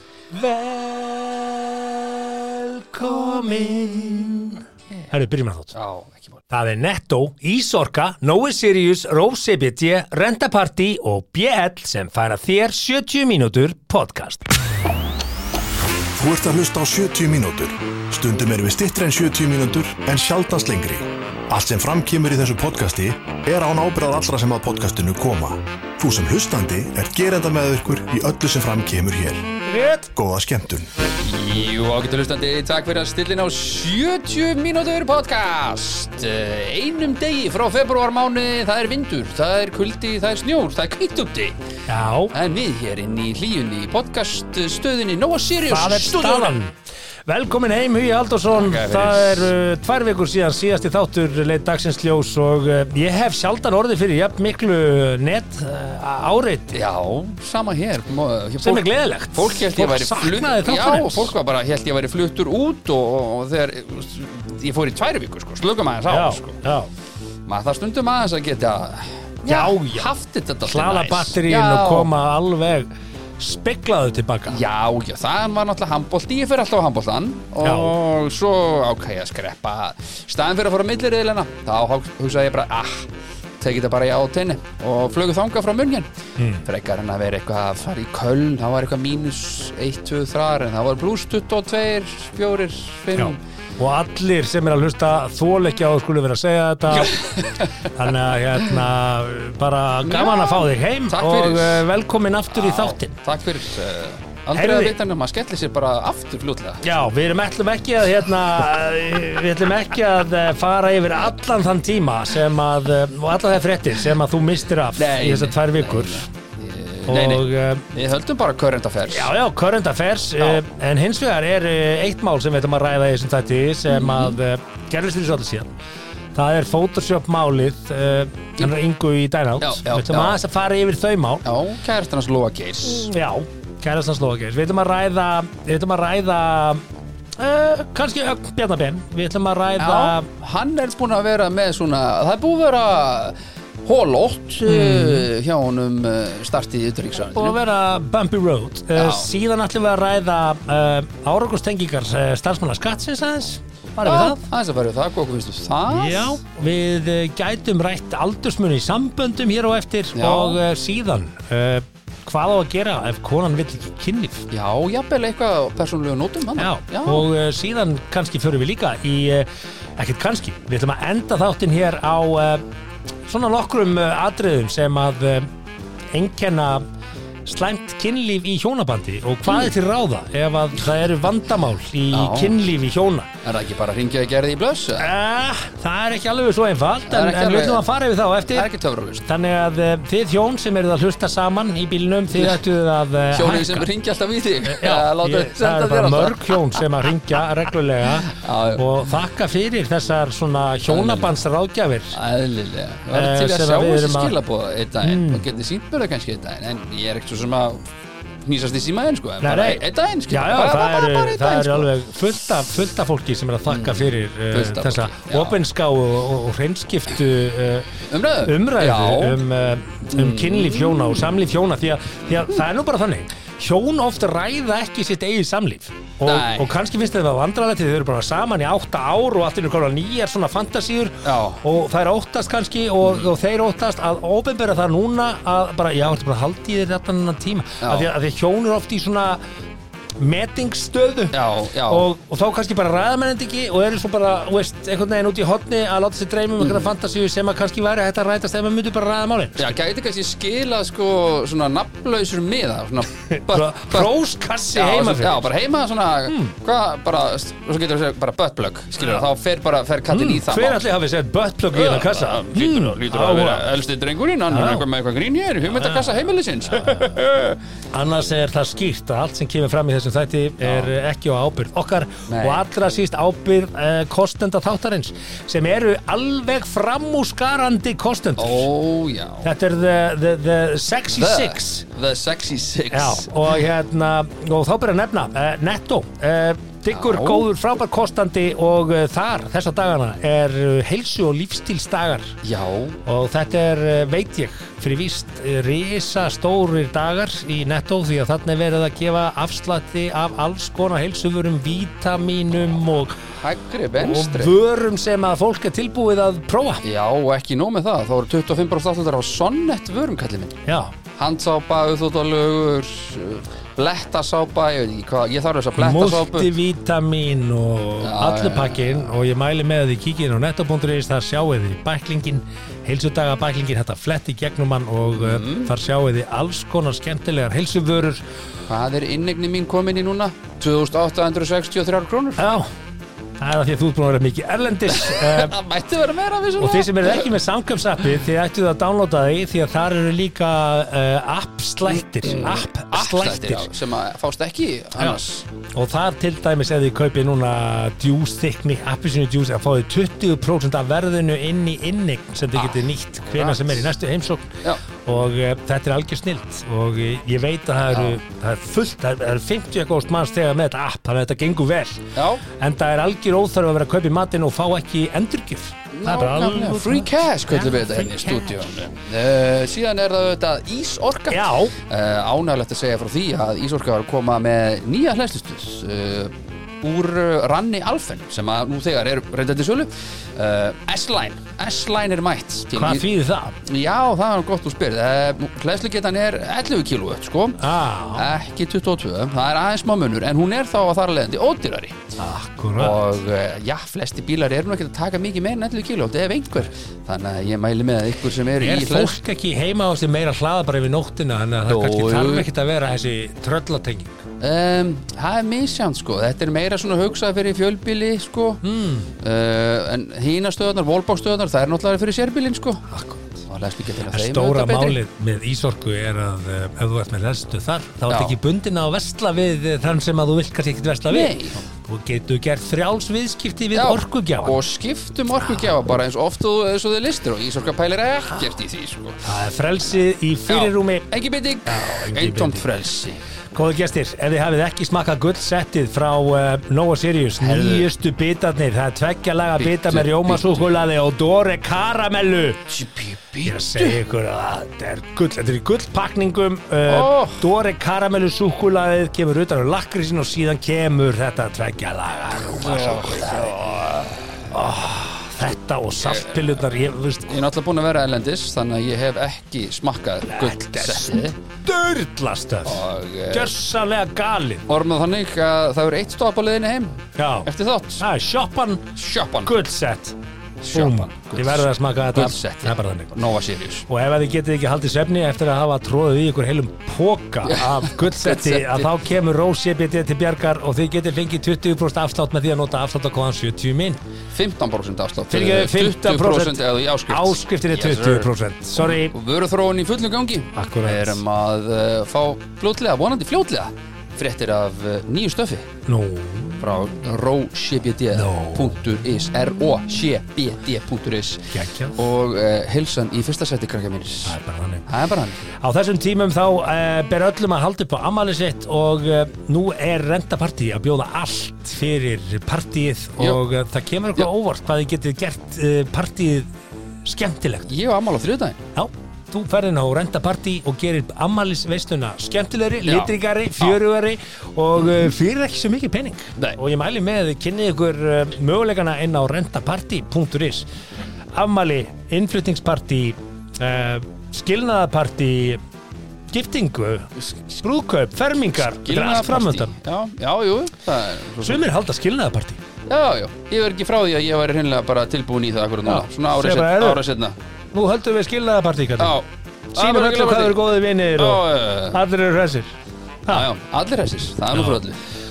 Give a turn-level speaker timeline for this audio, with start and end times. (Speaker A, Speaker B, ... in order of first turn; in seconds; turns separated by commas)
Speaker A: 0.3-5.8, Speaker B: 5.7-6.4, Speaker A: 6.5-14.5, Speaker C: 16.2-29.5, Speaker A: 29.7-30.1, Speaker C: 30.1-30.9, Speaker B: 31.2-41.6, Speaker A: 41.9-42.3, Speaker B: 42.3-46.6, Speaker A: 45.7-46.7, Speaker A: 47.3-56.8, Speaker B: 48.5-49.5, Speaker B: 56.7-66.6, Speaker A: 58.6-61.3, Speaker A: 66.1-66.9, Speaker B: 67.5-72.1, Speaker A: 69.5-70.1, Speaker A: 70.7-74.6, Speaker B: 74.5-86.1, Speaker A: 77.6-77.9, Speaker A: 86.4-86.6, Speaker B: 86.6-93.4, Speaker A: 93.2-103.2, Speaker B: 96.9-97.8, Speaker B: 100.0-101.8, Speaker B: 102.5-106.8, Speaker A: 104.5-105.0, Speaker A: 106.8-116.3, Speaker B: 114.9-119.3, Speaker A: 117.0-117.9, Speaker A: 119.1-125.7, Speaker B: 123.9-124.4, Speaker A: 126.3-131.4, Speaker B: 129.6-130.4, Speaker B: 131.4-133.1, Speaker A: 132.8-136.8, Speaker A: 137.4-140.3, Speaker B: 139.8-147.6, Speaker A: 144.6-145.3, Speaker A: 147.3-154.4, Speaker B: 148.9-149.3, Speaker B: 154.0-156.4, Speaker A: 155.9-164.5, Speaker B: 160.1-160.6, Speaker B: 164.5-167.3, Speaker A: 166.6-172.6, Speaker A: 173.2-175.5, Speaker A: 176.1-176.8, Speaker A: 177.4-183.3, Speaker B: 182.1-182.6, Speaker B: 183.4-185.1, Speaker A: 185.0-188.7, Speaker B: 187.1-187.8, Speaker B: 188.5-189.2, Speaker A: 189.2-193.9, Speaker B: 192.3-192.6, Speaker B: 193.3-196.8, Speaker A: 194.6-202.2, Speaker B: 198.2-198.8, Speaker B: 200.8-201.4, Speaker B: 202.1-207.8, Speaker A: 203.1-204.3, Speaker A: 205.0-205.4, Speaker B: 208.4-211.9, Speaker A: 209.4-239.4, Speaker B: 213.7-215.6, Speaker B: 218.1-219.4, Speaker B: 220.1-221.2, Speaker B: 226.2-226.7, Speaker B: 231.2-231.6, Speaker B: 233.0-233.3, Speaker B: 237.8-238.1, Speaker A: 240.2-249.7, Speaker B: 241.3-242.1, Speaker B: 246.6-246.9, Speaker B: 249.6-254.1, Speaker A: 253.2-255.5, Speaker B: 254.7-260.8, Speaker A: 256.3-256.6, Speaker A: 260.1-263.6, Speaker B: 261.7-267.6, Speaker A: 264.5-264.9, Speaker A: 265.7-267.1, Speaker A: 267.9-278.7, Speaker B: 270.6-270.9, Speaker B: 272.3-272.6, Speaker B: 278.4-279.5, Speaker A: 279.4-281.9, Speaker B: 281.1-283.6, Speaker A: 282.9-292.4, Speaker B: 286.9-287.5, Speaker B: 292.4-293.0, Speaker A: 293.0-303.2, Speaker B: 303.4-304.6, Speaker A: 304.0-306.8, Speaker B: 306.8-316.5, Speaker A: 310.6-310.9, Speaker A: 315.8-328.2, Speaker B: 318.0-319.1, Speaker B: 325.1-325.7, Speaker B: 328.6-332.5, Speaker A: 332.4-332.7, Speaker A: 333.4-335.5, Speaker B: 334.9-337.3, Speaker A: 336.6-343.7, Speaker B: 341.9-345.4, Speaker A: 345.7-368.9, Speaker B: 352.5-353.9, Speaker B: 357.9-358.2, Speaker B: 362.1-362.4, Speaker B: 365.9-383.1, Speaker A: 371.3-371.7, Speaker A: 382.7-383.6, Speaker B: 383.6-392.0, Speaker A: 387.6-388.3, Speaker A: 392.2-393.1, Speaker B: 392.8-399.2, Speaker A: 398.6-404.2, Speaker B: 401.7-402.4, Speaker B: 404.4-408.6, Speaker A: 408.6-409.1, Speaker B: 409.2-412.8, Speaker A: 412.9-413.4, Speaker B: 413.4-415.0, Speaker A: 414.1-424.6, Speaker B: 418.1-418.4, Speaker B: 421.1-421.6, Speaker B: 423.7-429.2, Speaker A: 425.4-425.8, Speaker A: 429.2-431.1, Speaker B: 430.5-433.2, Speaker A: 431.6-432.6, Speaker A: 433.5-442.7, Speaker B: 437.4-437.9, Speaker B: 439.6-440.6, Speaker B: 442.7-444.0, Speaker A: 443.4-453.5, Speaker B: 446.8-447.4, Speaker B: 452.5-454.5, Speaker A: 454.5-457.4, Speaker B: 456.0-456.6, Speaker B: 457.3-461.3, Speaker A: 460.2-464.6, Speaker B: 462.6-463.5, Speaker B: 464.7-468.0, Speaker A: 467.2-468.9, Speaker B: 468.9-469.5, Speaker A: 469.4-470.1, Speaker B: 470.6-473.9, Speaker A: 470.7-473.2, Speaker A: 473.9-484.0, Speaker B: 477.4-478.9, Speaker B: 484.3-495.7, Speaker A: 485.3-489.1, Speaker A: 490.5-491.2, Speaker A: 495.9-496.6, Speaker B: 496.6-505.4, Speaker A: 498.1-498.7, Speaker A: 501.5-502.0, Speaker A: 504.2-504.9, Speaker A: 505.5-516.5, Speaker A: 517.0-517.7, Speaker B: 517.7-518.6, Speaker A: 518.7-530.7, Speaker B: 522.8-523.8, Speaker B: 524.8-525.1, Speaker A: 531.3-535.6, Speaker A: 536.3-539.7, Speaker B: 537.2-537.6, Speaker B: 538.6-541.6, Speaker A: 541.4-542.6, Speaker B: 542.9-547.4, Speaker A: 545.9-547.0, Speaker A: 547.7-549.1, Speaker B: 549.0-550.6, Speaker A: 549.8-552.7, Speaker B: 551.1-552.0, Speaker B: 553.3-555.0, Speaker A: 554.5-554.8